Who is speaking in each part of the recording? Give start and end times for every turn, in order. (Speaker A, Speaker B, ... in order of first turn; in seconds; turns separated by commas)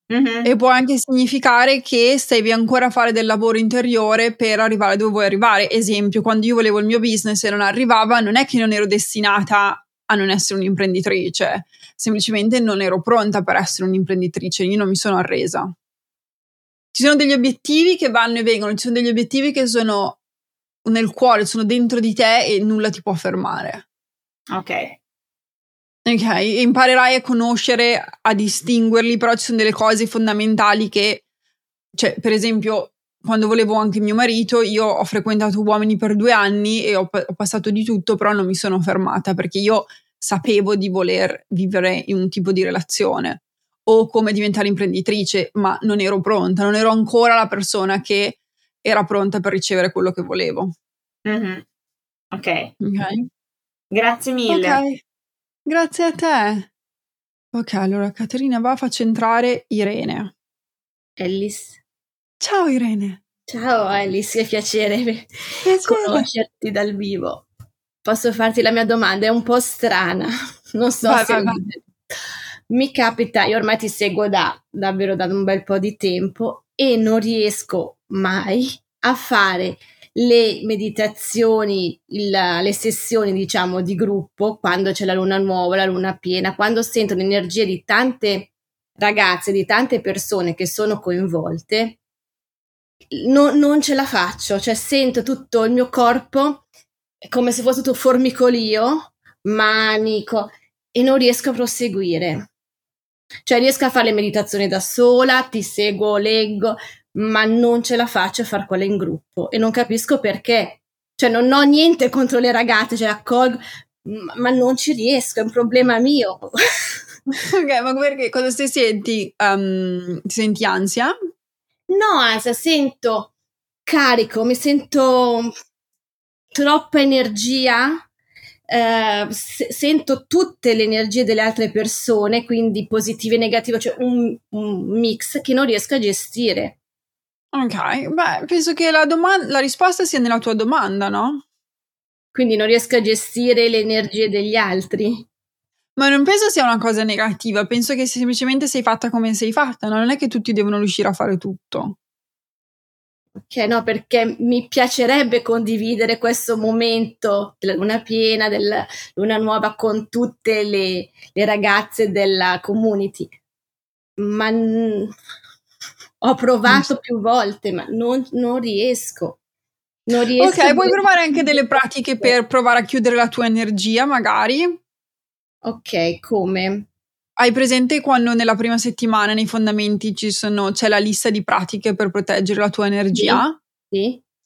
Speaker A: 0.1-0.5, Speaker B: 0.4-15.7, Speaker B: 16.9-20.2, Speaker B: 20.9-23.9, Speaker A: 24.5-25.0, Speaker B: 26.1-31.2, Speaker B: 31.9-50.7, Speaker A: 51.3-51.6, Speaker A: 52.3-52.7, Speaker B: 52.8-53.3, Speaker A: 53.9-54.8, Speaker B: 54.5-55.0, Speaker B: 55.7-56.7, Speaker B: 57.5-60.3, Speaker C: 61.2-61.8, Speaker B: 62.4-63.2, Speaker C: 63.5-67.5, Speaker B: 65.6-66.3, Speaker C: 68.0-71.9, Speaker B: 71.0-71.6, Speaker C: 72.7-92.0, Speaker C: 93.1-96.7, Speaker C: 97.2-102.5, Speaker C: 103.5-116.5, Speaker B: 117.3-121.2, Speaker C: 121.9-123.3, Speaker C: 123.9-125.5, Speaker C: 126.5-128.0, Speaker C: 128.7-136.8, Speaker B: 137.5-141.4, Speaker C: 142.3-145.3, Speaker B: 146.0-152.0, Speaker C: 153.4-163.3, Speaker C: 164.2-165.1, Speaker C: 166.2-169.4, Speaker C: 170.1-171.4, Speaker B: 170.4-174.8, Speaker C: 175.7-176.9, Speaker B: 177.4-183.6, Speaker C: 183.1-184.2